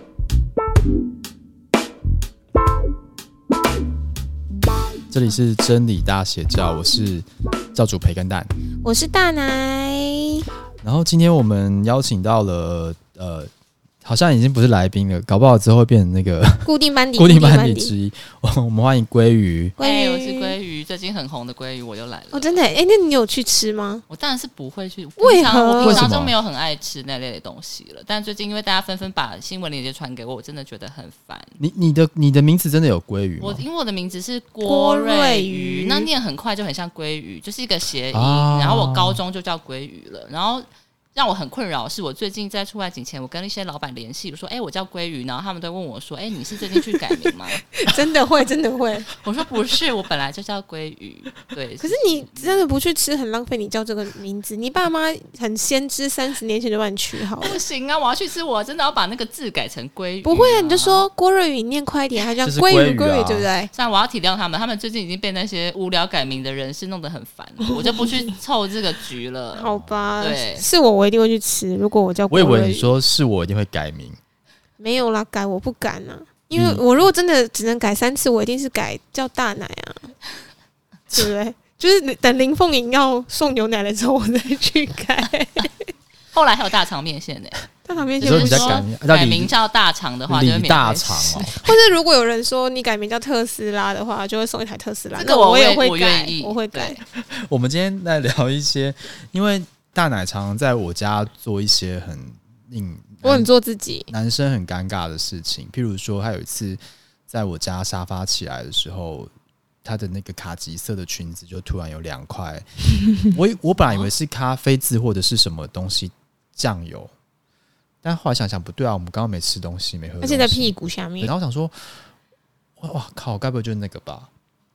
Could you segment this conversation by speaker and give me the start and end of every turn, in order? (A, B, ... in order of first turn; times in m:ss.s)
0:05.1-0:08.5 A
0:08.8-0:10.4 B
0:10.8-0:13.5 A
0:14.0-0:19.8 A
0:16.6-0:17.9 B
0:19.8-0:20.5 B
0:19.8-0:22.6 C
0:22.3-0:24.0 B
0:24.1-0:31.5 C
0:25.2-0:26.2 B
0:25.8-0:26.3 A
0:31.6-0:33.6 A
0:33.4-0:47.6 C
0:34.6-0:36.1 B
0:38.1-0:39.2 A
0:46.9-0:49.1 B
0:49.1-0:52.6 C
0:51.8-0:57.6 B
0:57.4-1:01.0 C
1:00.2-1:03.7 B
1:02.4-1:03.5 A
1:03.7-1:10.6 C
1:07.6-1:08.3 B
1:09.5-1:12.9 B
1:09.7-1:10.2 A
1:12.3-1:14.2 A
1:14.8-1:20.1 B
1:16.5-1:16.8 A
1:21.1-1:25.9 B
1:26.3-1:27.6 C
1:27.8-1:28.8 B
1:28.2-1:29.5 A
1:28.2-1:31.5 C
1:30.3-1:31.6 A
1:31.5-1:37.0 B
1:35.1-1:37.0 C
1:37.1-1:43.5 A
1:43.2-1:44.1 B
1:44.1-1:49.3 A
1:49.8-1:52.7 A
1:53.2-1:57.1 A
1:58.0-2:02.0 A
2:00.2-2:01.3 B
2:02.8-2:04.3 A